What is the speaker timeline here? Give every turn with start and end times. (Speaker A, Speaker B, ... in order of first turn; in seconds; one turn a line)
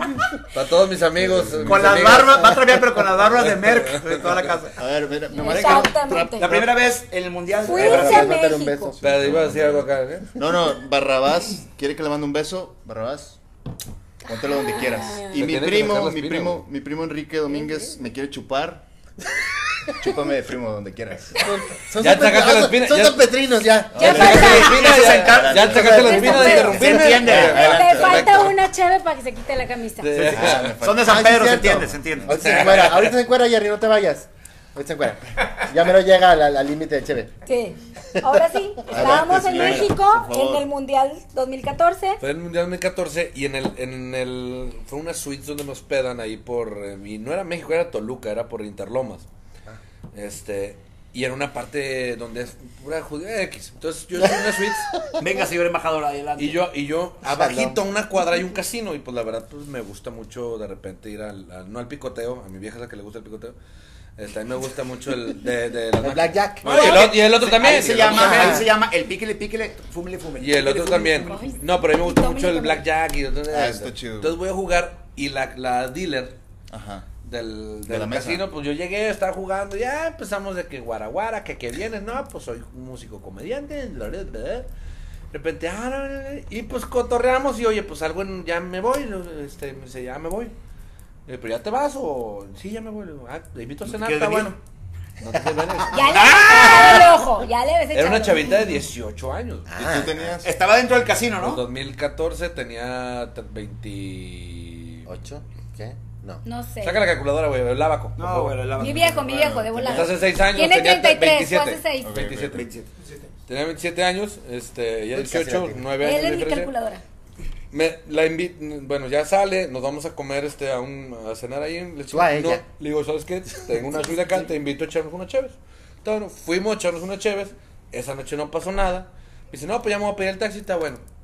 Speaker A: 0.5-2.5
Speaker B: 1.2-2.3
Speaker C: 1.6-4.8
Speaker A: 3.4-4.2
Speaker B: 4.8-6.9
Speaker D: 5.3-6.5
Speaker C: 5.5-8.3
Speaker D: 7.6-8.9
Speaker E: 7.7-9.0
Speaker B: 8.8-13.4
Speaker A: 9.0-10.3
Speaker B: 14.2-18.8
Speaker D: 14.5-15.3
Speaker A: 15.2-16.6
Speaker B: 19.9-21.4
Speaker E: 21.4-24.5
Speaker A: 22.0-23.3
Speaker B: 23.9-28.5
Speaker A: 24.0-28.6
Speaker D: 24.0-24.8
Speaker C: 24.1-27.7
Speaker D: 26.0-30.1
Speaker A: 30.0-30.8
Speaker C: 30.1-32.4
Speaker B: 30.2-32.9
Speaker E: 30.9-37.3
Speaker A: 32.3-33.2
Speaker D: 37.5-42.2
Speaker E: 38.2-39.9
Speaker B: 38.9-40.7
Speaker A: 42.2-49.3
Speaker A: 50.1-54.9
Speaker C: 55.2-56.6
Speaker A: 56.4-63.5
Speaker E: 57.2-57.8
Speaker A: 64.2-68.6
Speaker E: 66.0-67.0
Speaker C: 66.6-71.4
Speaker E: 68.0-68.7
Speaker A: 70.4-76.4
Speaker D: 71.0-72.8
Speaker B: 73.5-74.4
Speaker B: 76.7-77.1
Speaker A: 77.2-84.7
Speaker B: 77.9-78.4
Speaker A: 85.3-90.5
Speaker A: 91.3-94.6
Speaker C: 93.8-94.5
Speaker A: 95.2-97.2
Speaker D: 95.9-98.6
Speaker C: 96.1-97.2
Speaker A: 97.9-100.1
Speaker E: 99.7-100.4
Speaker B: 99.8-100.6
Speaker C: 100.4-101.6
Speaker A: 101.4-105.0
Speaker E: 105.0-106.4
Speaker D: 106.4-107.0
Speaker A: 106.8-108.9
Speaker C: 108.2-110.1
Speaker D: 108.8-112.2
Speaker A: 109.8-112.7
Speaker B: 112.0-112.7
Speaker C: 112.5-113.3
Speaker A: 113.5-116.7
Speaker E: 115.1-115.8
Speaker D: 116.0-117.0
Speaker A: 117.7-131.0
Speaker E: 122.1-122.6